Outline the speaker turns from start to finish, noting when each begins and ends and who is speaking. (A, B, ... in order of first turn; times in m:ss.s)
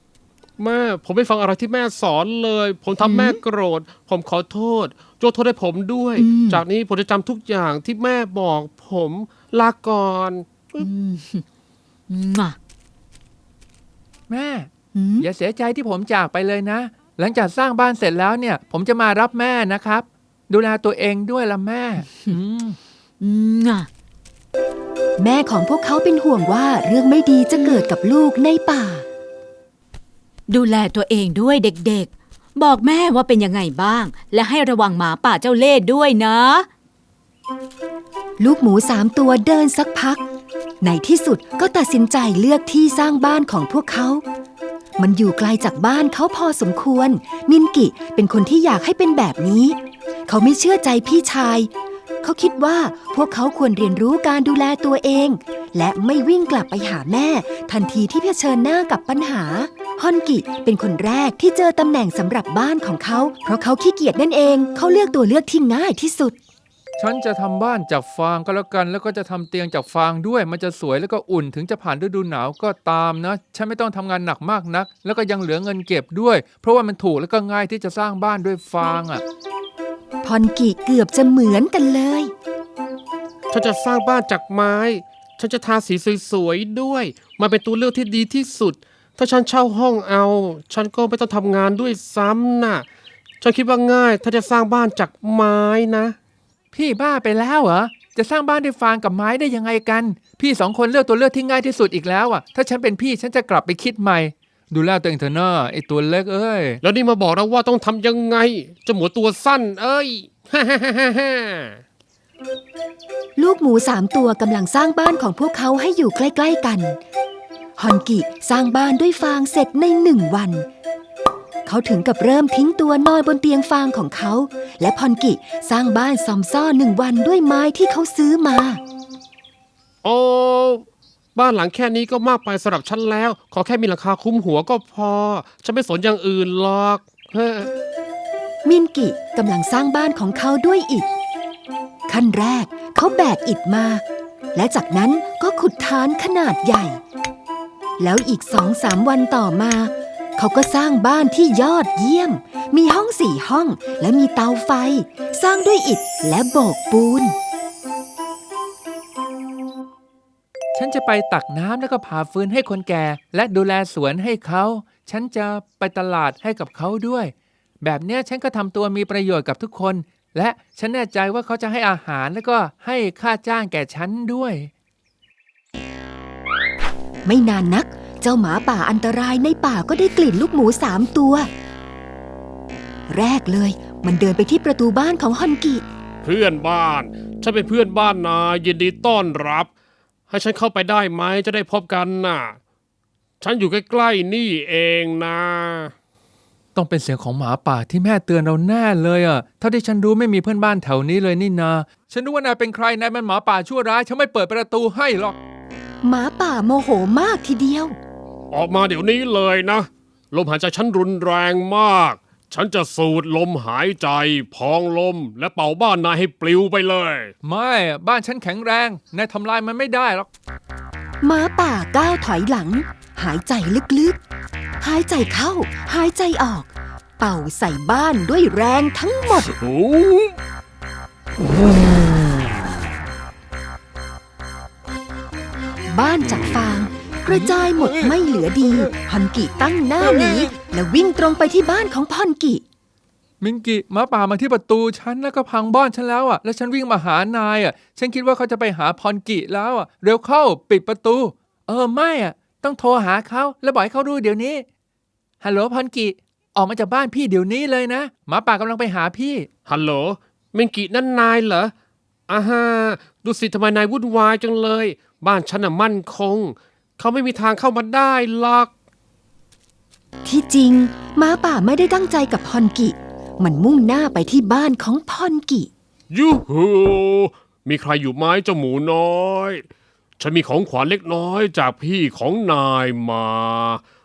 0:00.6-0:10.9 A
0:03.0-0:03.4 B
0:06.2-0:06.6 B
0:10.8-0:11.4 B
0:12.1-0:12.6 B
0:14.3-0:22.8 C
0:14.9-0:15.3 B
0:23.2-0:23.9 B
0:25.2-0:29.0 D
0:27.6-0:27.8 B
0:30.5-0:36.7 B
0:38.4-0:40.2 D
0:40.8-0:44.2 D
0:45.0-0:51.7 D
0:52.2-1:06.4 D
1:07.0-1:19.2 C
1:20.2-1:22.3 D
1:23.5-1:32.9 A
1:33.4-1:36.2 A
1:36.7-1:46.8 C
1:46.8-1:51.8 A
1:53.4-1:57.0 D
1:57.8-2:00.7 D
2:01.7-2:08.8 D
2:10.0-2:17.7 A
2:18.7-2:21.1 D
2:22.1-2:24.0 D
2:24.6-2:27.0 D
2:28.0-2:37.4 D
2:40.8-2:54.7 C
2:57.3-3:01.5 D
3:03.1-3:05.8 D
3:06.2-3:09.7 A
3:10.3-3:12.6 A
3:13.4-3:15.9 A
3:16.8-3:25.4 C
3:26.0-3:28.0 D
3:28.5-3:37.3 A
3:37.4-3:40.3 C
3:41.2-3:44.2 D
3:44.8-3:49.5 D
3:49.6-3:50.4 A
3:51.4-3:52.6 A
3:55.9-4:02.6 D
3:57.3-3:57.6 C
4:03.4-4:14.7 C
4:15.4-4:19.5 C
4:19.7-4:21.7 A
4:22.3-4:28.7 A
4:30.2-4:35.7 D
4:36.1-4:39.6 A
4:40.2-4:43.8 A